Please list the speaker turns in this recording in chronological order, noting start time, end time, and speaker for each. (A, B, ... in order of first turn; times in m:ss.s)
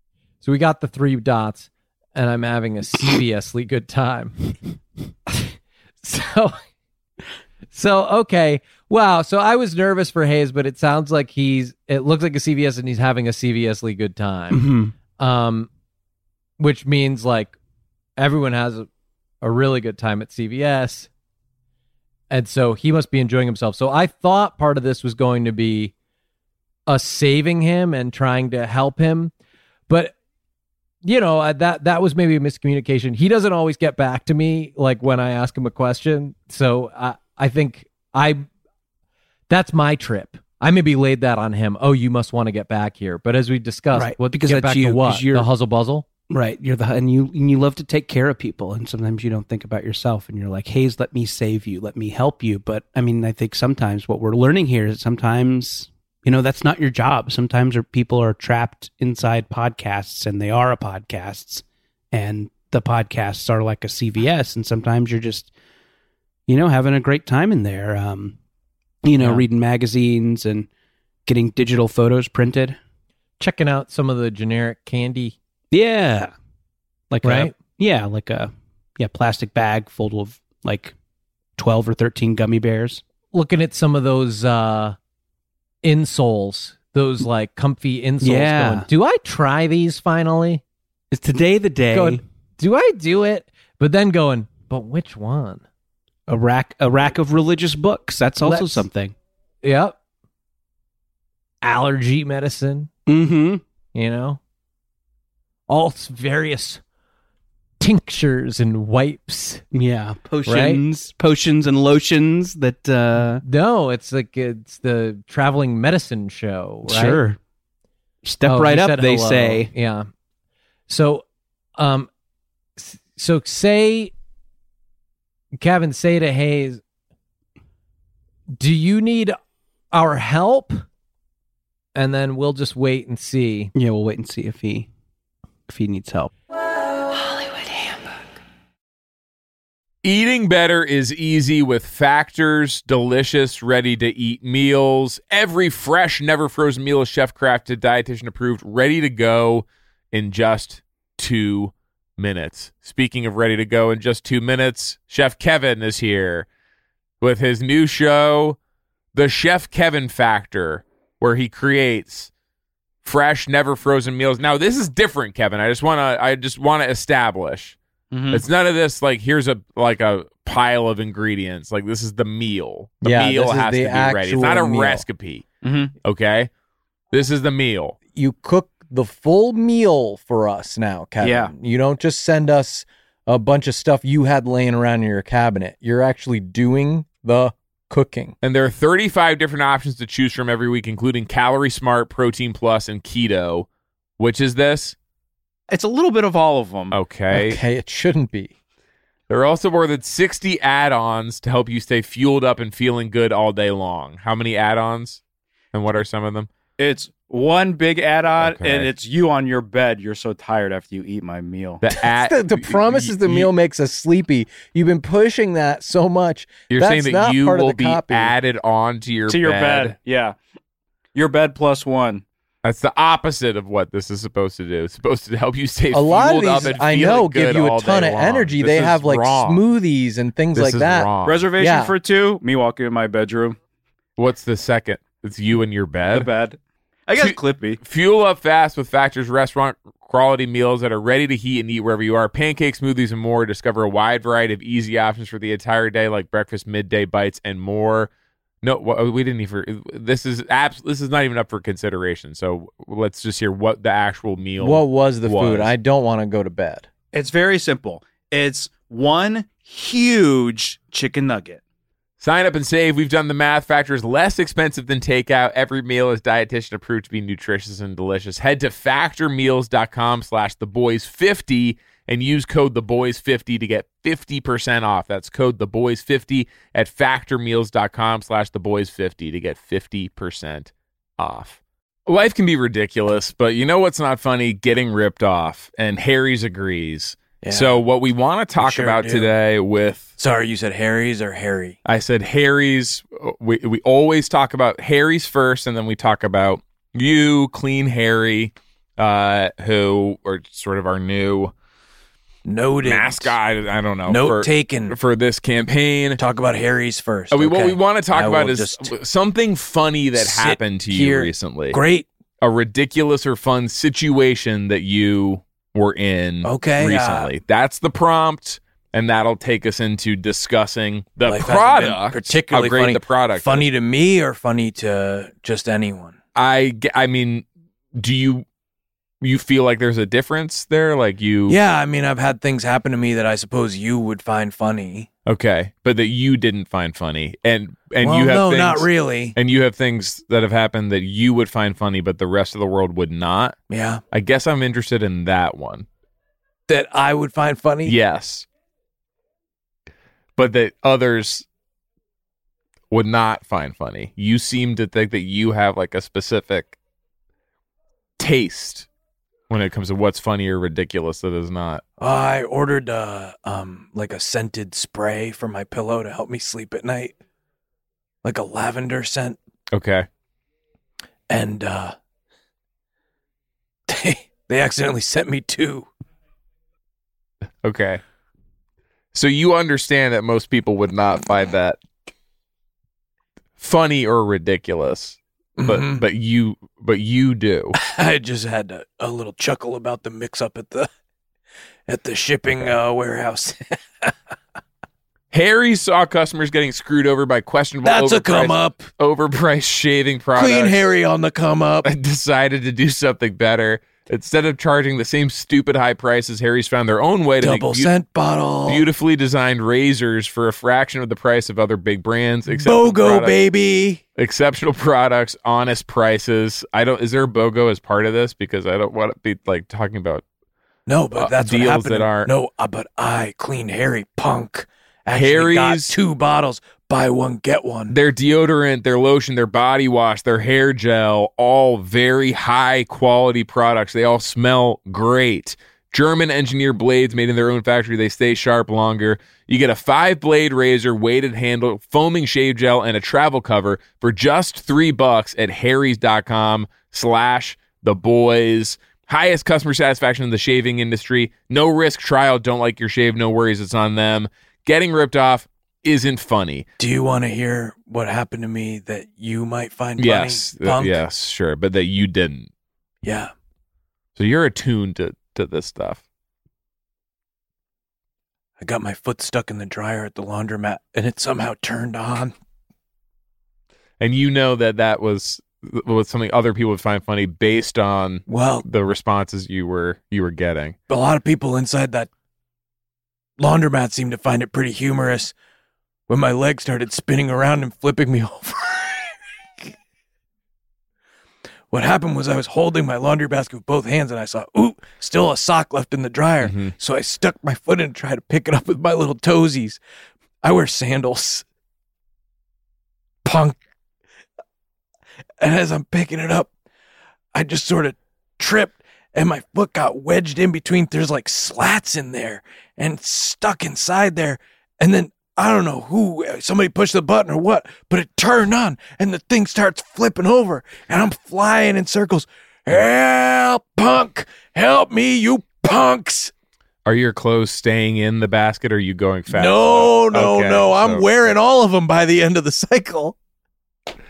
0:00.4-0:04.4 A
0:05.3-0:06.6 A
0:07.7-0:15.7 A
0:14.5-0:14.9 B
0:16.6-0:17.6 A
0:18.2-0:18.9 A
0:19.4-0:21.1 A
0:22.3-0:25.9 A
0:26.9-0:29.3 A
0:29.9-0:30.1 A
0:31.0-0:38.4 A
0:39.5-0:46.1 A
0:43.9-0:45.5 B
0:46.3-1:05.5 B
1:06.5-1:08.4 B
1:09.0-1:10.7 B
1:09.2-1:09.4 A
1:11.2-1:12.8 B
1:13.4-1:15.4 A
1:15.7-1:16.3 B
1:17.1-1:20.9 B
1:17.2-1:17.5 A
1:21.6-1:23.0 B
1:23.3-1:25.0 A
1:25.8-1:30.6 A
1:28.2-1:28.9 B
1:31.1-1:32.2 B
1:31.9-1:35.6 A
1:36.3-1:39.1 B
1:38.4-1:38.8 A
1:39.6-1:40.0 A
1:41.6-1:42.9 A
1:43.1-1:43.6 B
1:43.9-1:44.4 A
1:45.7-1:46.8 A
1:47.8-1:49.6 A
1:49.7-1:53.4 B
1:50.4-1:50.8 A
1:53.4-1:57.2 A
1:56.8-1:57.4 B
1:58.2-1:59.7 B
1:58.4-2:00.1 A
2:00.9-2:01.2 A
2:01.8-2:02.1 A
2:02.8-2:04.1 A
2:05.6-2:06.8 A
2:08.5-2:09.4 A
2:09.9-2:10.8 A
2:11.9-2:13.7 A
2:13.7-2:14.9 B
2:15.7-2:16.3 B
2:20.0-2:36.5 C
2:37.2-2:38.6 C
2:39.1-2:42.3 C
2:43.0-2:47.8 C
2:48.1-2:48.4 D
2:48.3-2:55.4 C
2:53.0-2:55.0 A
2:55.6-2:55.9 D
2:56.0-2:56.5 C
2:57.1-2:58.0 C
2:58.1-3:08.4 A
3:01.2-3:01.5 D
3:08.4-3:13.7 C
3:14.2-3:15.0 C
3:15.7-3:16.9 D
3:16.9-3:17.6 C
3:17.3-3:18.5 A
3:19.3-3:25.2 C
3:25.7-3:26.5 C
3:26.8-3:31.8 D
3:28.4-3:28.9 C
3:31.8-3:33.5 C
3:32.0-3:38.3 A
3:36.7-3:40.0 C
3:39.2-3:40.3 D
3:41.1-3:42.2 D
3:42.6-3:49.6 C
3:45.9-3:51.9 A
3:50.5-3:51.5 C
3:51.2-3:53.6 D
3:54.2-3:56.3 C
3:56.1-3:57.8 D
3:57.2-4:08.1 C
4:08.6-4:15.7 C
4:14.6-4:16.9 A
4:17.1-4:21.6 D
4:22.2-4:50.1 C
4:47.4-4:47.8 E
4:48.6-4:49.3 E
4:50.2-4:51.8 E
4:51.8-5:01.5 C
5:02.4-5:03.4 E
5:02.8-5:06.2 C
5:04.0-5:05.0 E
5:06.2-5:08.9 E
5:07.3-5:11.8 C
5:10.1-5:12.1 E
5:12.4-5:23.7 C
5:16.4-5:17.3 E
5:21.2-5:26.2 E
5:26.4-5:28.4 C
5:29.2-5:31.6 C
5:31.5-5:35.1 E
5:35.2-5:43.6 C
5:38.0-5:39.4 E
5:43.7-5:44.0 E
5:44.1-5:45.9 C
5:46.7-5:48.0 E
5:47.8-5:48.5 C
5:50.4-5:51.5 C
5:52.9-5:56.8 C
5:58.2-5:58.9 C
5:59.5-6:01.8 C
6:02.0-6:07.1 E
6:08.2-6:09.4 E
6:09.7-6:10.1 C
6:11.3-6:12.0 E
6:13.9-6:15.9 E
6:17.6-6:18.0 C
6:19.1-6:21.8 C
6:23.6-6:27.7 C
6:25.6-6:26.0 E
6:27.8-6:30.9 E
6:31.9-6:34.1 E
6:35.3-6:40.8 C
6:37.8-6:38.9 E
6:40.3-6:41.9 E
6:41.8-6:47.9 C
6:47.4-6:48.9 E
6:48.6-6:53.4 C
6:52.5-6:54.0 E
6:54.2-7:00.2 C
7:00.9-7:08.0 E
7:01.1-7:02.3 C
7:05.1-7:06.0 C
7:07.9-7:36.6 C
7:36.8-7:41.0 E
7:40.0-7:42.5 C
7:43.0-7:43.3 E
7:44.2-7:46.0 C
7:48.6-7:52.3 E
7:54.0-8:00.8 C
7:58.3-7:58.6 E
8:00.9-8:02.1 E
8:03.4-8:05.3 E
8:06.1-8:09.7 E
8:11.7-8:19.8 E
8:16.4-8:16.7 C
8:20.4-8:21.4 E
8:23.2-8:23.6 E
8:25.4-8:26.5 E
8:27.3-8:46.3 E
8:46.8-8:51.1 C
8:49.3-8:53.2 E